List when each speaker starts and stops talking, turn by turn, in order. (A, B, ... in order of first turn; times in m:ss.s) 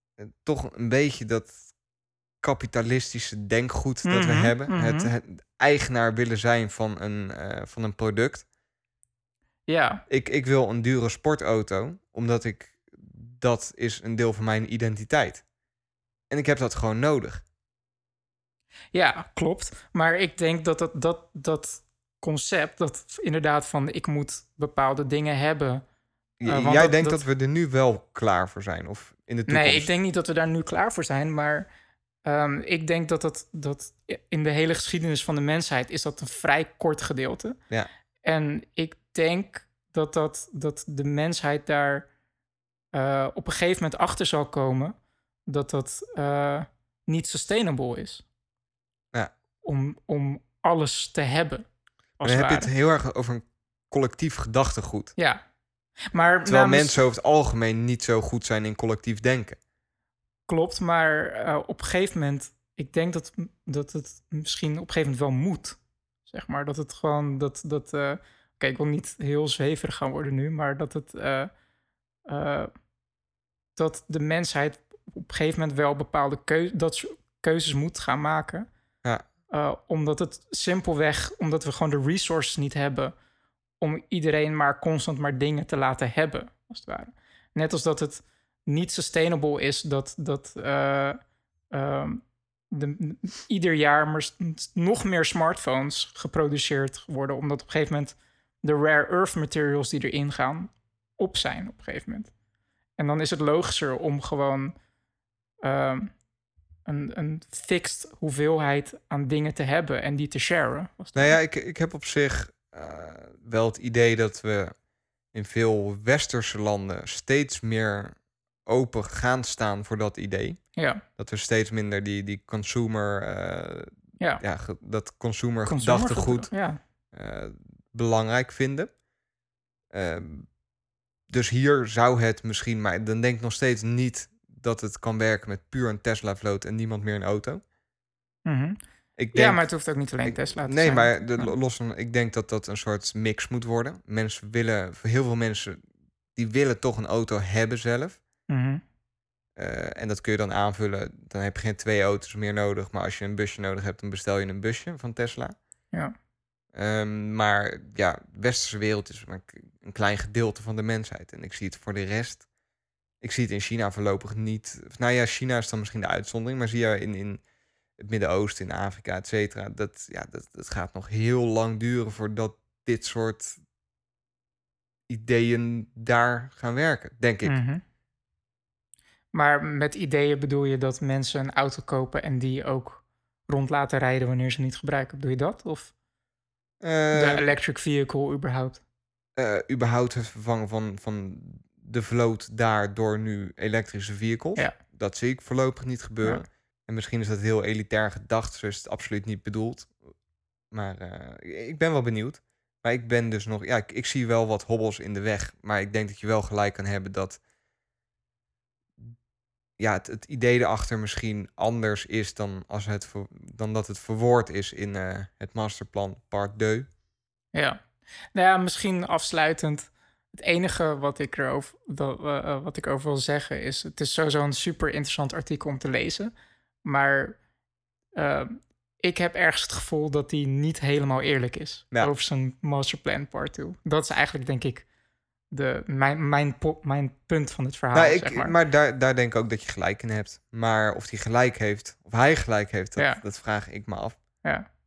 0:00.2-0:01.5 A
0:02.4-0:08.4 A
0:04.0-0:05.1 B
0:09.7-0:10.0 B
0:10.1-0:15.4 A
0:16.3-0:17.4 A
0:18.9-0:25.8 B
0:26.4-0:29.9 A
0:26.4-0:27.2 B
0:29.5-0:31.7 B
0:32.2-0:37.6 B
0:38.2-0:42.1 B
0:42.9-0:44.9 B
0:45.5-0:48.2 B
0:49.6-0:51.6 B
0:52.2-0:52.7 B
0:52.2-0:55.1 A
0:56.1-0:57.0 B
0:56.4-0:59.6 A
1:00.5-1:11.5 B
1:12.2-1:12.7 B
1:13.8-1:18.7 B
1:19.5-1:23.1 B
1:23.8-1:31.2 B
1:31.7-1:42.3 B
1:43.0-1:44.7 B
1:45.6-1:46.1 B
1:46.8-1:51.4 B
1:51.1-1:54.7 A
1:55.3-2:06.5 A
2:00.8-2:01.0 B
2:05.6-2:06.8 B
2:07.1-2:08.9 A
2:09.9-2:10.5 A
2:11.3-2:17.6 A
2:18.4-2:18.8 B
2:19.2-2:19.6 A
2:19.3-2:21.5 B
2:20.2-2:25.8 A
2:26.4-2:28.2 A
2:28.5-2:28.8 B
2:29.6-2:35.5 A
2:36.7-2:42.4 A
2:43.2-2:47.4 A
2:48.0-2:53.6 A
2:55.1-2:57.6 A
2:57.4-2:57.8 B
2:59.3-3:05.9 B
3:06.8-3:07.4 A
3:07.1-3:08.8 B
3:09.4-3:20.0 A
3:20.7-3:27.4 A
3:29.8-3:36.9 A
3:37.5-3:37.8 B
3:38.3-3:46.3 B
3:46.8-3:47.4 B
3:48.2-3:54.8 B
3:55.5-3:58.5 B
3:57.9-4:04.2 A